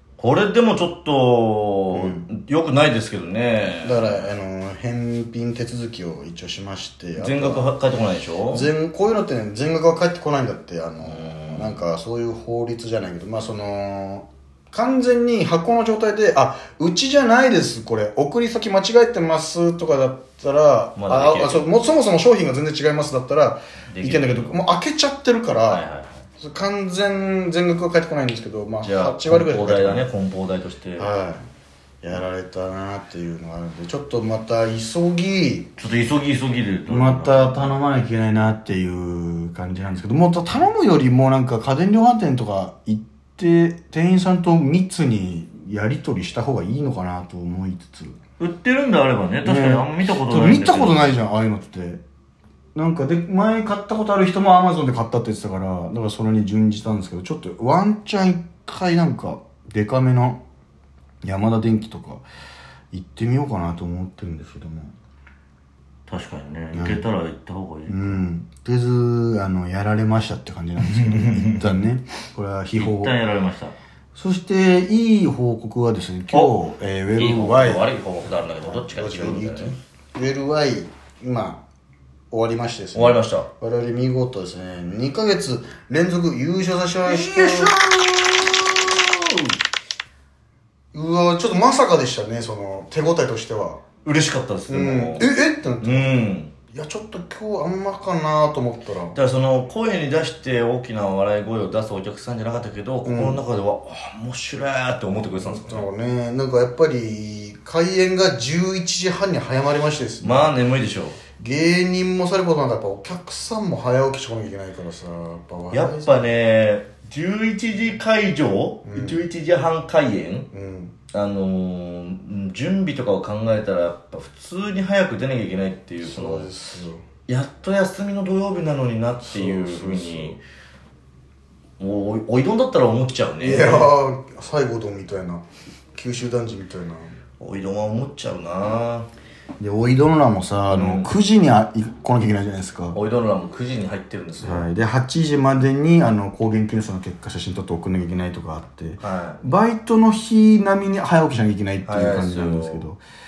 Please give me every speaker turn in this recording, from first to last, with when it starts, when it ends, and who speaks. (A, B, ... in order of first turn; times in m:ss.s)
0:00.2-0:04.3 A
0:01.9-0:02.3 B
0:03.8-0:07.7 B
0:07.2-0:08.7 A
0:08.5-0:25.9 B
0:11.0-0:11.8 A
0:21.0-0:21.7 A
0:23.9-0:24.6 A
0:25.7-0:26.2 A
0:26.4-0:30.1 B
0:28.8-0:31.1 A
0:31.0-0:31.4 B
0:32.0-0:35.7 B
0:35.8-0:37.7 A
0:36.9-0:48.2 B
0:48.4-0:51.2 A
0:49.4-0:52.0 B
0:52.8-1:00.4 B
1:01.2-1:02.2 B
1:02.9-1:04.9 B
1:06.1-1:08.2 A
1:06.7-1:07.0 B
1:07.9-1:13.2 B
1:10.8-1:11.8 A
1:12.8-1:13.8 A
1:14.1-1:21.6 B
1:17.2-1:19.8 A
1:22.3-1:27.8 B
1:22.9-1:23.5 A
1:27.0-1:29.6 A
1:30.9-1:33.8 B
1:34.0-1:36.5 A
1:34.7-1:39.2 B
1:39.1-1:45.9 A
1:43.0-1:43.4 B
1:45.4-1:50.6 B
1:50.2-1:51.2 A
1:51.4-1:56.3 B
1:55.7-2:00.5 A
1:58.8-1:59.3 B
2:00.5-2:00.9 B
2:01.1-2:06.5 A
2:06.0-2:07.0 B
2:07.3-2:10.4 A
2:09.2-2:10.4 B
2:11.8-2:13.9 A
2:13.4-2:17.2 B
2:17.4-2:19.1 A
2:19.6-2:23.0 B
2:20.7-2:21.1 A
2:22.9-2:24.7 A
2:24.4-2:33.0 B
2:29.0-2:29.4 A
2:31.8-2:32.9 A